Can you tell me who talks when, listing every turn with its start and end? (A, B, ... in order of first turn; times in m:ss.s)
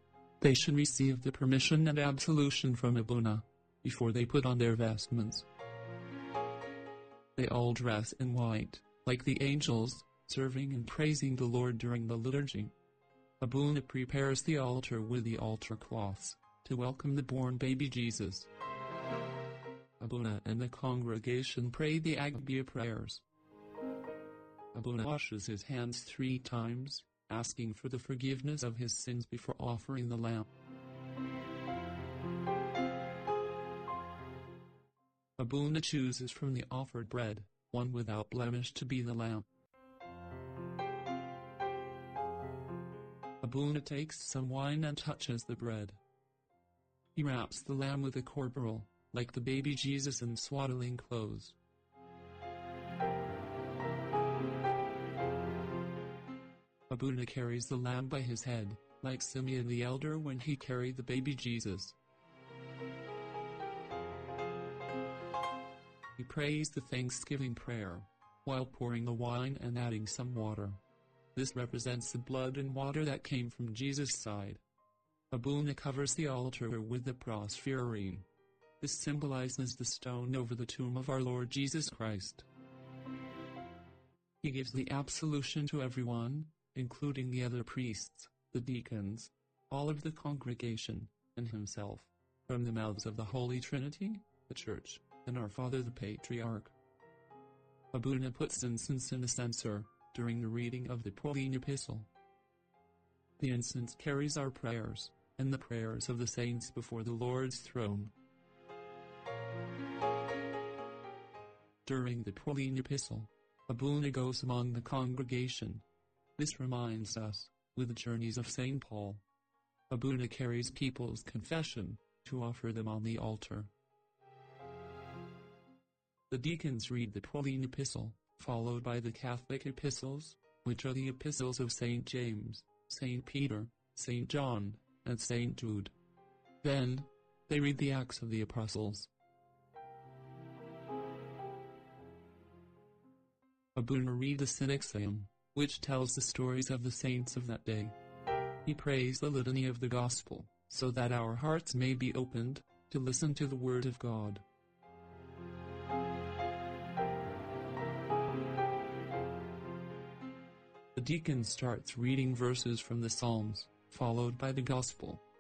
0:00.4-0:05.5 A
0:07.4-0:12.8 A
0:13.4-0:18.5 A
0:20.0-0:23.2 A
0:24.7-0:30.5 A
0:35.4-0:39.5 A
0:43.4-0:46.0 A
0:47.2-0:51.6 A
0:56.9-1:02.0 A
1:06.2-1:10.8 A
1:11.4-1:14.6 A
1:15.3-1:18.3 A
1:18.8-1:22.5 A
1:24.4-1:36.7 A
1:37.9-1:42.1 A
1:43.4-1:48.1 A
1:51.8-1:55.8 A
1:56.4-1:59.2 A
1:59.9-2:03.7 A
2:06.3-2:15.9 A
2:16.6-2:19.1 A
2:23.8-2:28.0 A
2:28.6-2:34.4 A
2:41.0-2:45.2 A